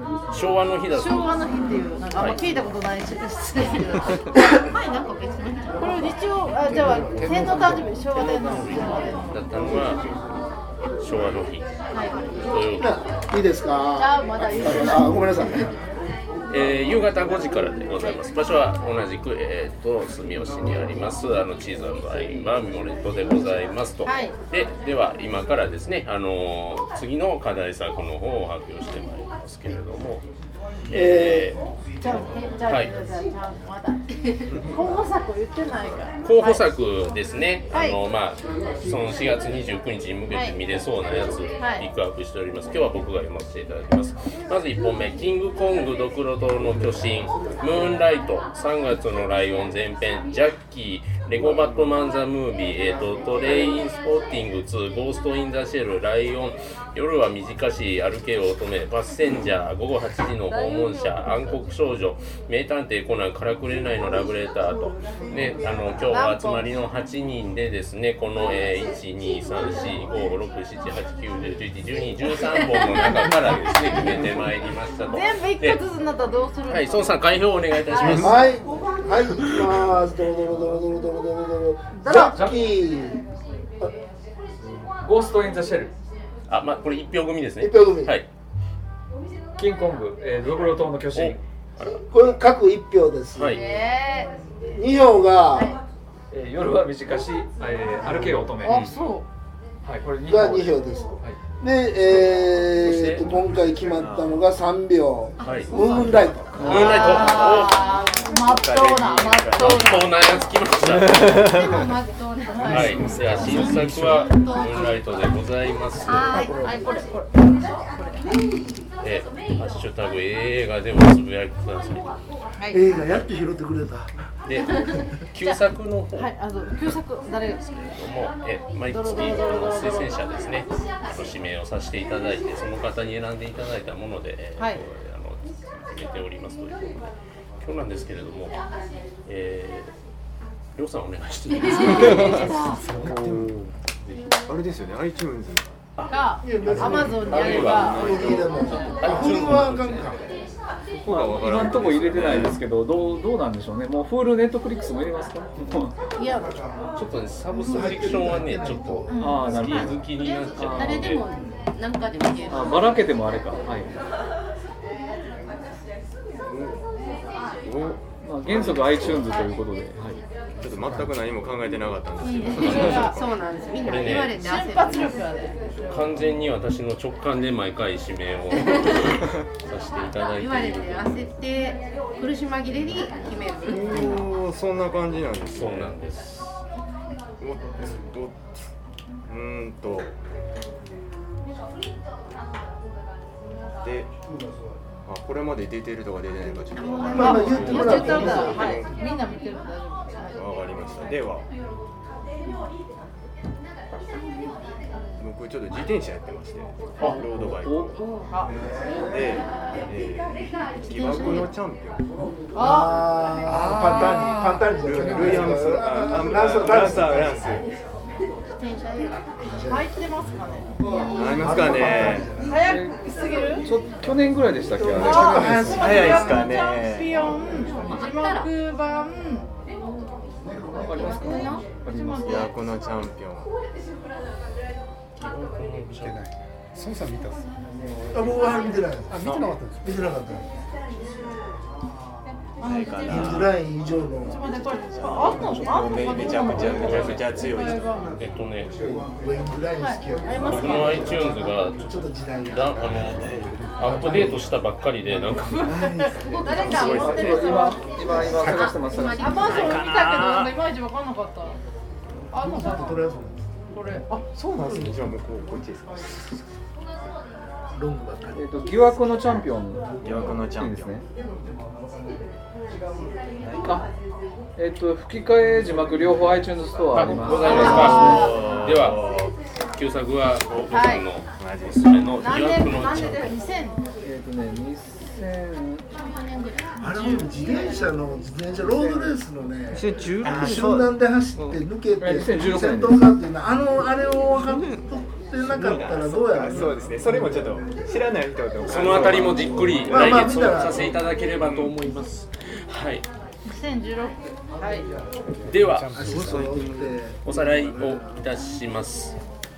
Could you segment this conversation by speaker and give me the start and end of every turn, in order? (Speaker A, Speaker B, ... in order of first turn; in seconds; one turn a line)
Speaker A: 0.3-1.3
Speaker B: 0.9-4.3
Speaker C: 4.3-6.1
Speaker B: 5.7-9.7
Speaker D: 6.6-7.9
Speaker A: 8.1-10.0
Speaker A: 11.0-11.7
Speaker C: 11.9-12.4
Speaker A: 12.4-13.0
Speaker D: 12.8-15.7
Speaker B: 13.9-15.6
Speaker A: 16.5-30.2
Speaker B: 24.0-24.3
Speaker A: 30.9-31.6
Speaker D: 30.9-31.5
Speaker B: 32.0-36.7
Speaker A: 32.6-32.9
Speaker A: 36.2-75.8
Speaker B: 37.7-38.0
Speaker B: 40.3-40.6
Speaker E: 51.4-52.0
Speaker B: 60.5-61.3
Speaker B: 66.1-66.7
Speaker B: 75.1-77.2
Speaker A: 76.7-78.5
Speaker D: 78.1-83.2
Speaker B: 82.0-82.3
Speaker F: 82.2-82.6
Speaker F: 85.0-85.9
Speaker A: 86.5-88.3
Speaker D: 87.6-88.2
Speaker F: 89.6-91.4
Speaker A: 91.1-92.2
Speaker D: 92.1-93.6
Speaker A: 93.3-93.6
Speaker B: 93.5-94.3
Speaker D: 94.7-95.7
Speaker F: 96.3-98.8
Speaker D: 98.1-98.4
Speaker B: 98.6-99.2
Speaker A: 98.6-99.0
Speaker F: 99.8-101.4
Speaker D: 100.2-106.8
Speaker A: 102.6-103.3
Speaker E: 103.9-104.4
Speaker A: 105.4-105.7
Speaker C: 105.4-105.9
Speaker B: 105.8-110.1
Speaker E: 106.1-109.9
Speaker F: 106.5-107.2
Speaker A: 106.6-107.8
Speaker C: 106.8-107.2
Speaker A: 109.5-111.5
Speaker E: 110.8-111.9
Speaker C: 111.3-112.7
Speaker B: 112.5-113.2
Speaker A: 112.6-116.4
Speaker E: 112.7-114.0
Speaker C: 113.2-115.2
Speaker C: 116.0-116.8
Speaker B: 116.3-118.4
Speaker A: 119.0-122.2
Speaker D: 122.7-124.2
Speaker A: 124.4-126.3
Speaker B: 124.6-125.6
Speaker B: 126.1-127.8
Speaker A: 127.6-138.6
Speaker B: 128.9-130.3
Speaker B: 134.6-134.8
Speaker A: 139.2-139.9
Speaker A: 140.7-142.7
Speaker B: 141.7-142.9
Speaker E: 141.8-143.7
Speaker G: 142.7-143.4
Speaker E: 144.3-145.7
Speaker B: 146.1-148.2
Speaker D: 146.4-150.3
Speaker A: 147.2-148.0
Speaker E: 147.3-148.8
Speaker A: 148.8-150.2
Speaker E: 151.0-152.6
Speaker F: 151.0-155.9
Speaker A: 156.9-161.2
Speaker D: 157.5-159.1
Speaker B: 159.1-159.5
Speaker F: 159.2-160.0
Speaker C: 159.5-163.0
Speaker F: 160.6-161.1
Speaker F: 162.5-163.9
Speaker E: 166.5-166.8
Speaker E: 167.6-169.4
Speaker F: 168.2-170.2
Speaker E: 170.6-173.3
Speaker C: 172.2-175.3
Speaker A: 172.5-173.0
Speaker B: 172.7-173.2
Speaker A: 173.8-174.4
Speaker B: 174.3-176.1
Speaker A: 175.9-181.3
Speaker C: 180.3-184.2
Speaker E: 183.6-185.9
Speaker A: 185.5-186.6
Speaker E: 187.4-188.5
Speaker E: 189.3-190.1
Speaker E: 193.8-194.1
Speaker E: 195.1-199.0
Speaker C: 196.7-198.5
Speaker D: 197.1-198.6
Speaker B: 197.4-200.4
Speaker A: 197.5-198.2
Speaker E: 200.3-201.4
Speaker E: 205.2-208.0
Speaker F: 207.0-208.1
Speaker E: 209.1-212.0
Speaker C: 210.9-211.5
Speaker B: 212.5-213.0
Speaker D: 212.6-217.4
Speaker F: 213.5-214.7
Speaker E: 213.9-217.7
Speaker C: 218.6-219.2
Speaker D: 219.4-219.8
Speaker B: 219.7-221.5
Speaker E: 221.0-222.3
Speaker D: 221.3-222.6
Speaker B: 222.4-223.7
Speaker F: 222.7-223.0
Speaker F: 223.6-225.8
Speaker D: 224.7-226.4
Speaker B: 224.9-229.5
Speaker G: 225.2-225.8
Speaker E: 225.8-227.3
Speaker C: 227.4-228.5
Speaker F: 230.7-232.4
Speaker B: 230.8-231.1
Speaker C: 230.9-231.8
Speaker B: 231.7-232.7
Speaker E: 232.2-233.5
Speaker A: 235.2-236.3
Speaker G: 236.0-237.4
Speaker D: 238.1-240.4
Speaker G: 239.1-239.8
Speaker E: 239.2-239.5
Speaker B: 242.6-243.4
Speaker E: 242.6-243.5
Speaker D: 243.1-244.4
Speaker B: 244.2-248.1
Speaker E: 244.7-247.9
Speaker A: 246.7-247.4
Speaker A: 248.1-248.7
Speaker D: 248.8-252.8
Speaker B: 249.8-251.1
Speaker A: 250.4-255.6
Speaker E: 252.9-253.5
Speaker D: 253.8-254.4
Speaker B: 255.3-258.4
Speaker E: 255.7-257.8
Speaker C: 256.4-257.0
Speaker F: 257.0-259.5
Speaker G: 258.2-258.7
Speaker C: 258.5-259.8
Speaker B: 259.0-261.6
Speaker E: 259.5-260.6
Speaker B: 262.3-262.9
Speaker D: 262.4-263.5
Speaker B: 263.7-264.0
Speaker E: 264.1-266.2
Speaker D: 264.6-264.9
Speaker D: 267.8-269.0
Speaker F: 268.3-271.0
Speaker E: 270.0-271.0
Speaker F: 274.6-278.3
Speaker A: 276.9-283.4
Speaker B: 277.4-278.4
Speaker E: 277.4-279.3
Speaker B: 280.7-281.1
Speaker E: 281.4-282.1
Speaker B: 282.2-283.8
Speaker F: 284.0-285.8
Speaker C: 285.9-287.9
Speaker D: 286.8-296.7
Speaker F: 288.7-289.1
Speaker G: 289.7-290.9
Speaker E: 290.2-290.7
Speaker F: 292.0-293.0
Speaker G: 294.4-294.8
Speaker E: 295.4-300.2
Speaker A: 298.6-303.0
Speaker D: 299.9-300.9
Speaker E: 301.3-301.7
Speaker B: 303.4-304.9
Speaker A: 305.4-306.1
Speaker E: 305.5-307.0
Speaker D: 305.9-308.2
Speaker A: 307.2-309.1